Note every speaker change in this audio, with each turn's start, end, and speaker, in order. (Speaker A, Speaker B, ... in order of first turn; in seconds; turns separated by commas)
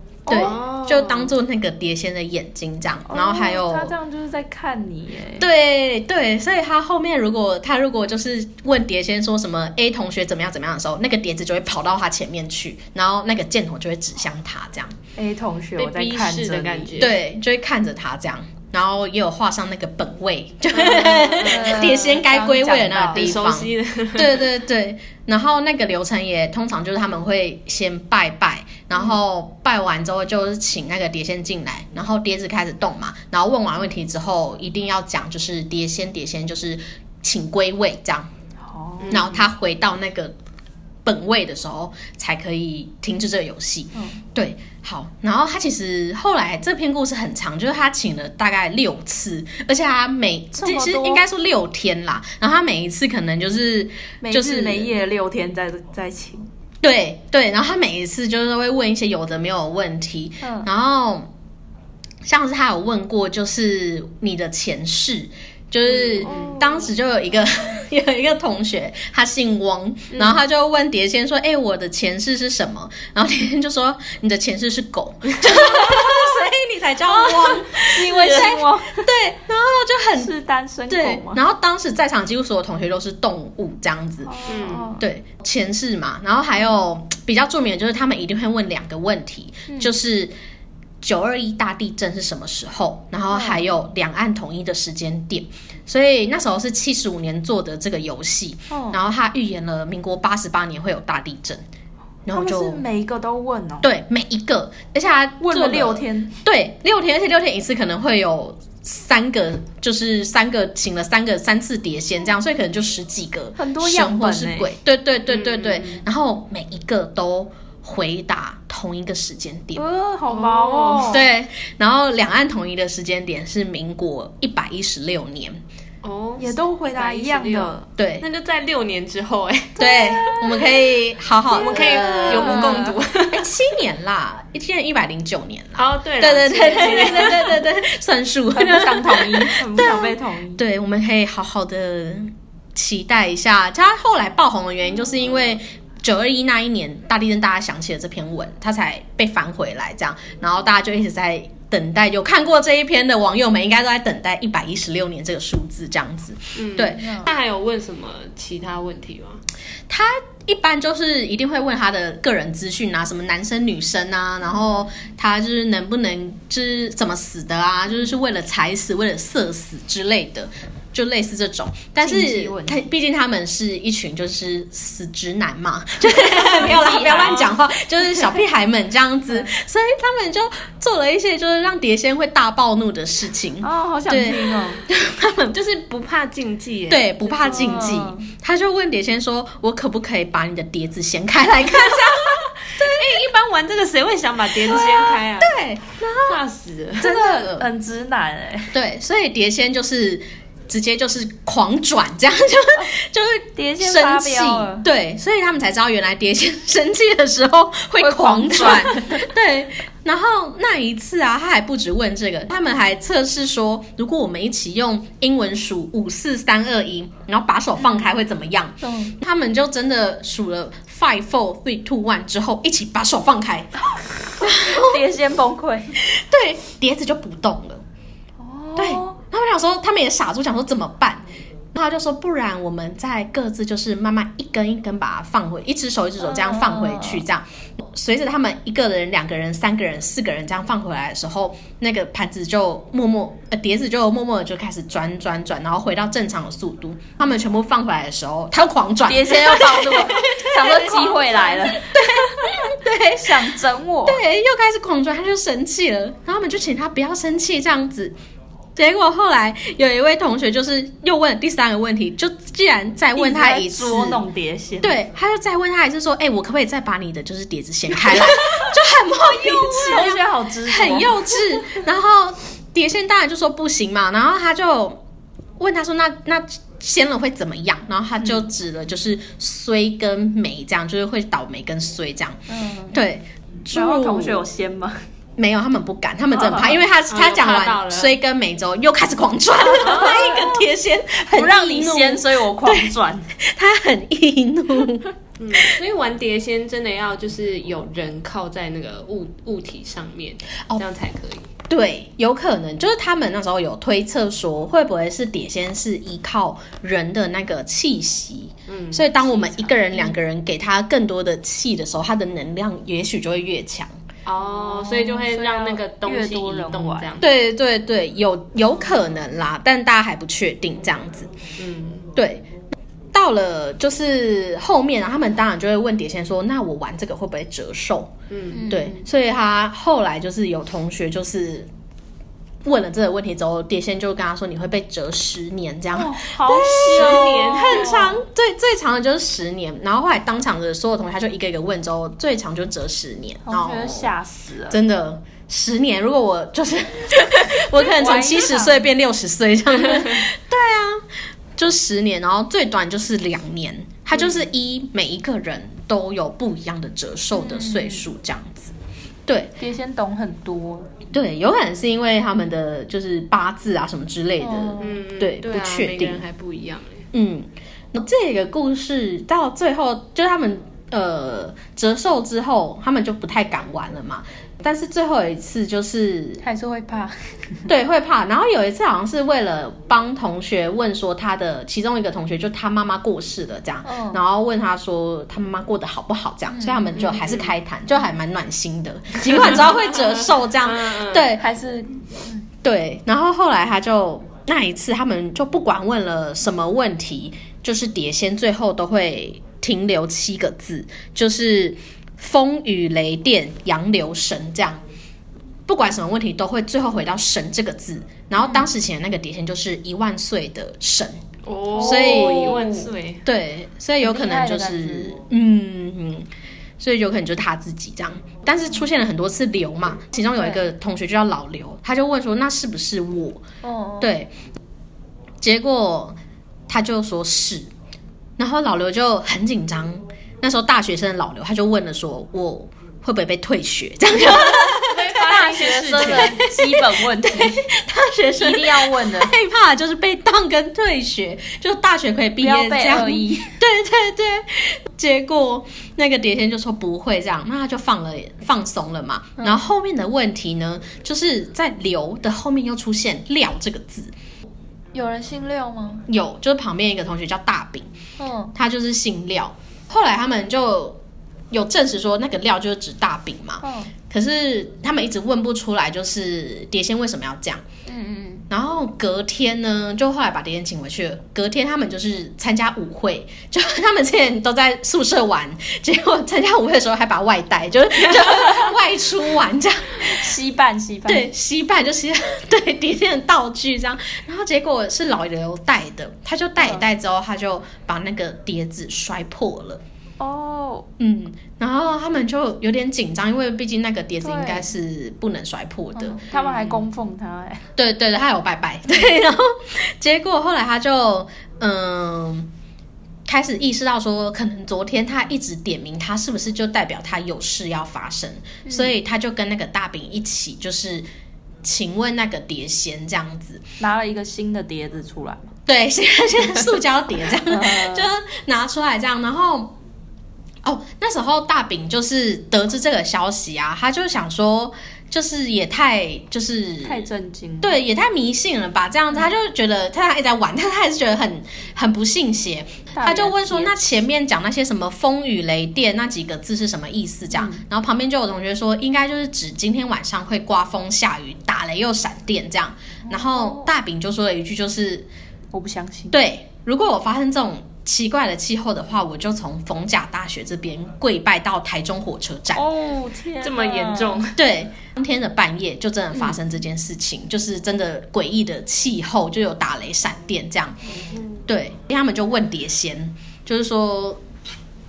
Speaker A: 0.3-0.5, Speaker B: 0.3-3.9, Speaker C: 0.3-1.3, Speaker A: 3.1-5.5, Speaker B: 5.4-14.9, Speaker A: 15.2-17.1, Speaker C: 15.8-17.2, Speaker B: 17.0-38.3, Speaker C: 20.7-22.0, Speaker A: 21.3-23.4, Speaker C: 23.1-24.5, Speaker A: 38.6-39.3, Speaker C: 39.0-39.5, Speaker B: 39.1-40.3, Speaker B: 41.0-54.9, Speaker A: 43.9-44.2, Speaker A: 50.6-51.2, Speaker A: 54.2-56.5, Speaker B: 56.8-61.3, Speaker A: 60.4-60.7, Speaker B: 62.2-80.3, Speaker C: 65.8-66.6, Speaker A: 66.2-66.9, Speaker A: 70.1-70.4, Speaker A: 75.5-76.3, Speaker A: 77.0-79.1, Speaker A: 80.2-81.4, Speaker B: 80.9-84.4, Speaker A: 84.2-85.0, Speaker C: 84.5-84.9, Speaker B: 85.0-90.3, Speaker A: 89.7-89.9, Speaker B: 91.0-101.6, Speaker A: 93.3-93.6, Speaker A: 98.7-99.0, Speaker B: 102.2-102.8, Speaker A: 102.3-103.9, Speaker B: 103.8-119.8, Speaker A: 105.4-106.3, Speaker A: 113.5-114.7, Speaker C: 115.3-116.0, Speaker A: 119.7-121.2, Speaker C: 120.3-121.2, Speaker B: 121.1-125.6, Speaker C: 126.0-130.9, Speaker A: 126.4-127.9, Speaker B: 128.0-128.2, Speaker B: 129.8-157.2, Speaker C: 131.5-133.5, Speaker A: 131.7-132.9, Speaker C: 135.8-137.6, Speaker A: 136.7-137.6, Speaker A: 138.5-140.6, Speaker C: 156.6-159.4, Speaker A: 157.0-157.2, Speaker B: 159.9-185.6, Speaker A: 172.0-172.8, Speaker A: 176.3-177.5, Speaker C: 176.9-177.4, Speaker A: 183.6-184.8, Speaker C: 185.5-187.8, Speaker B: 186.9-193.2, Speaker A: 187.4-188.3, Speaker C: 191.8-197.1, Speaker B: 194.6-196.4, Speaker B: 197.0-197.7, Speaker A: 197.0-198.7, Speaker B: 198.7-223.7, Speaker A: 203.6-204.9, Speaker A: 208.0-209.3, Speaker A: 218.8-219.1, Speaker B: 224.4-225.1, Speaker A: 224.4-226.0, Speaker B: 226.0-227.8, Speaker A: 228.4-229.2, Speaker B: 228.8-231.2, Speaker B: 231.7-253.5, Speaker A: 236.2-237.2, Speaker A: 249.1-254.2, Speaker B: 254.0-258.1, Speaker B: 258.8-264.2, Speaker A: 263.1-264.9, Speaker B: 264.8-275.0, Speaker A: 267.9-271.3, Speaker B: 275.6-282.4, Speaker A: 282.5-283.0, Speaker B: 282.9-284.4, Speaker A: 283.7-285.0, Speaker B: 285.4-295.8, Speaker C: 286.4-288.2, Speaker A: 289.7-290.6, Speaker C: 289.8-290.3, Speaker A: 291.3-293.3, Speaker C: 295.4-301.5, Speaker B: 301.7-313.9, Speaker C: 308.7-310.1, Speaker C: 314.2-317.3, Speaker A: 314.4-317.1, Speaker B: 317.2-321.3, Speaker C: 321.6-322.1, Speaker B: 322.1-322.5, Speaker B: 323.1-328.1, Speaker C: 328.3-328.7, Speaker A: 328.5-329.1, Speaker B: 328.7-331.7, Speaker B: 332.6-344.1, Speaker A: 335.9-338.2, Speaker C: 336.6-338.0, Speaker A: 343.4-344.8, Speaker B: 344.7-351.0, Speaker A: 347.7-348.9, Speaker B: 351.6-358.7, Speaker A: 357.3-358.1, Speaker B: 359.3-359.6, Speaker A: 359.6-360.9, Speaker B: 361.1-366.2, Speaker A: 364.4-365.0, Speaker C: 364.8-367.1, Speaker B: 367.1-376.4, Speaker A: 376.4-377.7, Speaker B: 377.7-391.4, Speaker A: 383.8-384.2, Speaker A: 386.5-387.1, Speaker C: 386.9-387.5, Speaker C: 390.6-391.2, Speaker A: 391.4-392.4, Speaker B: 392.6-404.8, Speaker B: 405.7-411.2, Speaker A: 408.4-408.7, Speaker C: 411.4-413.2, Speaker A: 411.7-412.8, Speaker B: 411.8-416.3, Speaker A: 414.0-415.2, Speaker B: 416.8-423.4, Speaker A: 420.3-420.6, Speaker A: 423.6-424.1, Speaker B: 424.0-424.3, Speaker B: 425.4-426.2, Speaker B: 426.7-427.7, Speaker B: 428.4-435.1, Speaker A: 434.2-437.6, Speaker C: 434.8-436.4, Speaker B: 435.9-454.1, Speaker A: 438.4-439.3, Speaker A: 442.4-443.6, Speaker A: 454.9-456.1, Speaker B: 456.1-457.9, Speaker A: 458.2-458.5, Speaker B: 458.5-461.0, Speaker B: 461.5-467.6, Speaker A: 463.6-463.9, Speaker A: 467.9-468.4, Speaker B: 468.5-480.3, Speaker A: 480.0-481.3, Speaker B: 481.1-489.8, Speaker A: 486.6-486.9, Speaker A: 490.2-490.9, Speaker B: 491.0-496.2, Speaker A: 494.2-494.6, Speaker A: 495.9-497.6, Speaker C: 496.3-496.8, Speaker B: 497.8-502.5, Speaker B: 503.2-511.1, Speaker A: 508.6-509.0, Speaker B: 511.6-513.6, Speaker A: 513.8-515.5, Speaker B: 515.6-519.8, Speaker A: 517.4-518.1, Speaker B: 520.6-527.0, Speaker A: 526.8-527.8, Speaker B: 527.6-545.1, Speaker A: 532.9-533.8, Speaker A: 537.3-537.6, Speaker A: 543.0-543.7, Speaker A: 545.5-546.2, Speaker B: 546.1-552.6, Speaker A: 552.5-554.2, Speaker C: 553.4-554.4, Speaker B: 554.3-560.8, Speaker C: 561.0-561.4, Speaker B: 561.5-564.2